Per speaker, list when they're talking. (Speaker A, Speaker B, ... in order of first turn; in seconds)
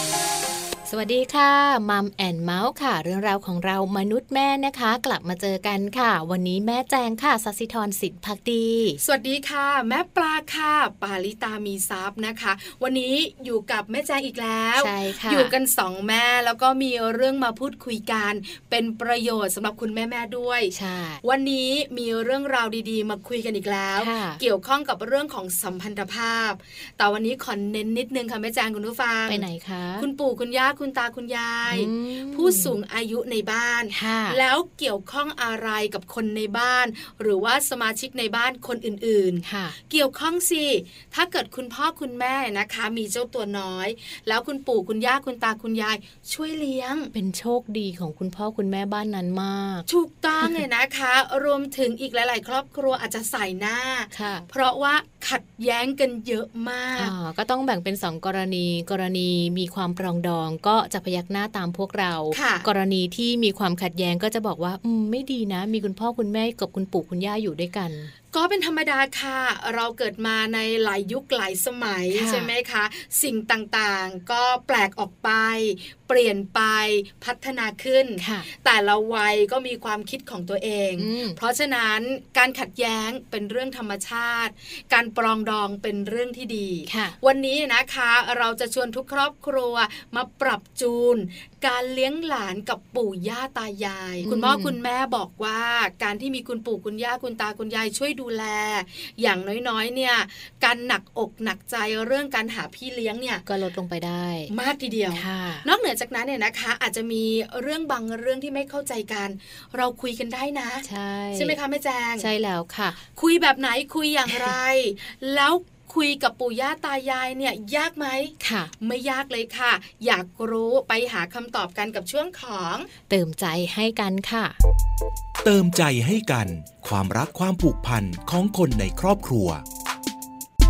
Speaker A: 0.8-9.0, 14.8-15.5, 20.7-21.2, 24.0-24.4, 29.3-30.1, 31.7-32.8, 33.9-34.4, 39.4-39.8, 47.1-49.9, 54.1-54.5, 57.0-68.1, 72.1-72.5, 78.2-78.5, 81.0-81.4, 86.9-87.2, 94.2-94.8, 103.5-104.5, 105.1-105.7, 110.8-111.6, 112.2-113.0, 118.4-118.7, 123.1-124.6
Speaker B: 9.0-29.4, 30.0-47.1, 49.9-57.1, 62.3-62.7, 68.3-103.5, 104.5-112.3, 113.1-122.9
Speaker C: 125.4-129.6